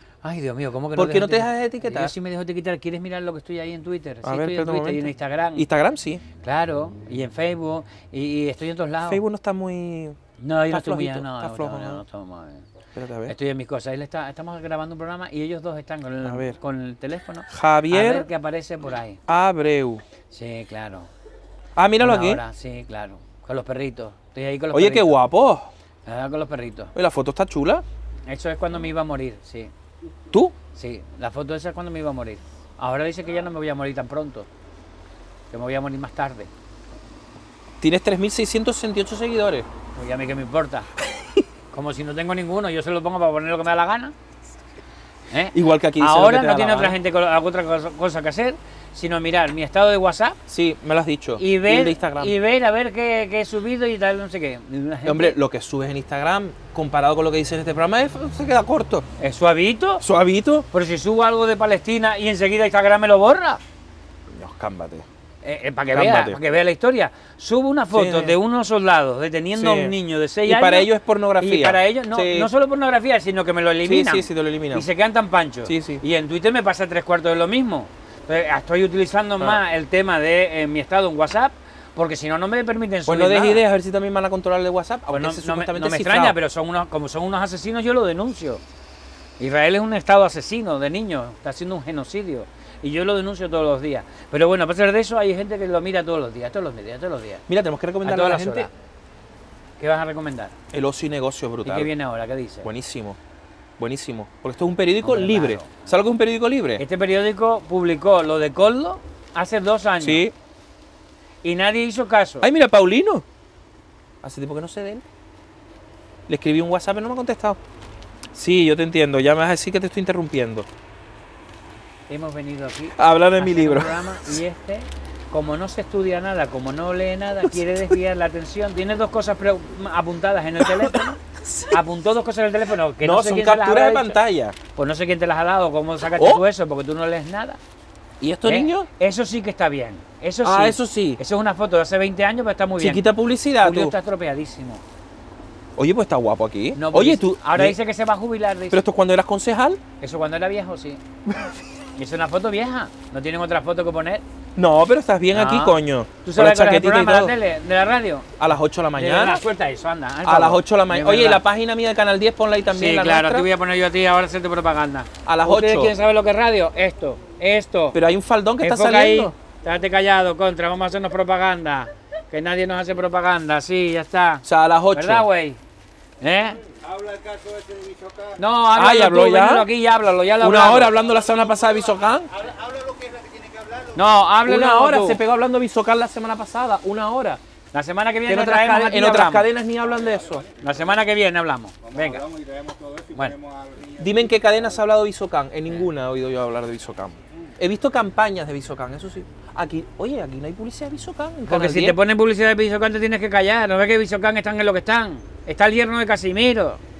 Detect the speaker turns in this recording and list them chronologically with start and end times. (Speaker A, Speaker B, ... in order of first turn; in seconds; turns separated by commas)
Speaker A: 0.2-5.7, Speaker B: 0.9-2.1, Speaker B: 4.2-6.2, Speaker A: 6.4-9.2, Speaker B: 9.1-10.2, Speaker A: 10.4-12.7, Speaker B: 10.7-12.0, Speaker B: 12.9-13.3, Speaker A: 13.3-19.2, Speaker B: 16.2-16.6, Speaker B: 17.5-18.3, Speaker B: 19.3-20.0, Speaker A: 20.3-21.1, Speaker B: 21.8-22.4, Speaker A: 22.0-25.2, Speaker B: 24.7-25.7, Speaker A: 26.1-26.9, Speaker B: 26.9-27.8, Speaker A: 28.3-29.7, Speaker A: 30.7-34.5, Speaker A: 35.5-36.5, Speaker B: 37.8-39.7, Speaker A: 40.0-40.9, Speaker A: 41.7-44.1, Speaker A: 45.3-50.4, Speaker B: 45.5-47.0, Speaker B: 50.5-52.3, Speaker A: 51.4-55.4, Speaker B: 55.0-59.0, Speaker A: 59.2-60.0, Speaker B: 60.0-60.7, Speaker A: 60.7-63.6, Speaker B: 64.3-65.0, Speaker A: 65.4-70.9, Speaker B: 65.9-66.4, Speaker B: 67.9-68.4, Speaker B: 69.5-72.5, Speaker A: 71.4-83.6, Speaker B: 73.8-74.8, Speaker B: 75.7-76.0, Speaker B: 83.1-86.4, Speaker A: 85.1-88.6, Speaker A: 89.4-97.4, Speaker B: 97.5-98.7, Speaker A: 98.0-98.7, Speaker A: 99.8-100.5, Speaker B: 100.7-101.9, Speaker A: 101.6-102.7, Speaker B: 102.6-103.2, Speaker B: 103.8-106.8, Speaker A: 105.0-105.9, Speaker A: 106.8-110.2, Speaker B: 110.0-110.3, Speaker A: 111.4-112.4, Speaker B: 112.4-113.2, Speaker B: 114.2-115.0, Speaker B: 116.3-117.6, Speaker B: 118.3-120.7, Speaker A: 122.1-131.2, Speaker B: 123.0-123.9, Speaker B: 130.6-131.8, Speaker A: 131.7-134.2, Speaker B: 133.0-134.6, Speaker A: 134.7-137.6, Speaker B: 136.2-136.4, Speaker B: 138.2-138.9, Speaker A: 138.4-143.1, Speaker B: 140.4-141.2, Speaker B: 142.8-143.9, Speaker A: 143.6-144.8, Speaker B: 145.8-147.8, Speaker A: 146.7-148.8, Speaker B: 148.7-149.8, Speaker A: 150.0-151.0, Speaker B: 151.3-151.5, Speaker A: 151.9-154.2, Speaker B: 154.6-157.3, Speaker A: 155.3-158.3, Speaker B: 158.4-159.4, Speaker A: 158.9-161.4, Speaker B: 160.2-163.5, Speaker A: 162.7-168.0, Speaker B: 165.2-165.9, Speaker B: 167.9-169.3, Speaker A: 168.6-175.6, Speaker B: 174.4-175.2, Speaker A: 176.2-176.6, Speaker C: 176.8-178.4, Speaker A: 178.4-180.9, Speaker B: 178.7-179.7, Speaker B: 180.4-182.3, Speaker C: 182.4-183.9, Speaker A: 183.9-185.2, Speaker B: 184.4-187.4, Speaker A: 187.7-189.5, Speaker B: 188.3-190.4, Speaker C: 190.0-190.5, Speaker A: 190.6-192.2, Speaker C: 191.9-194.3, Speaker B: 194.0-202.0, Speaker A: 201.5-206.8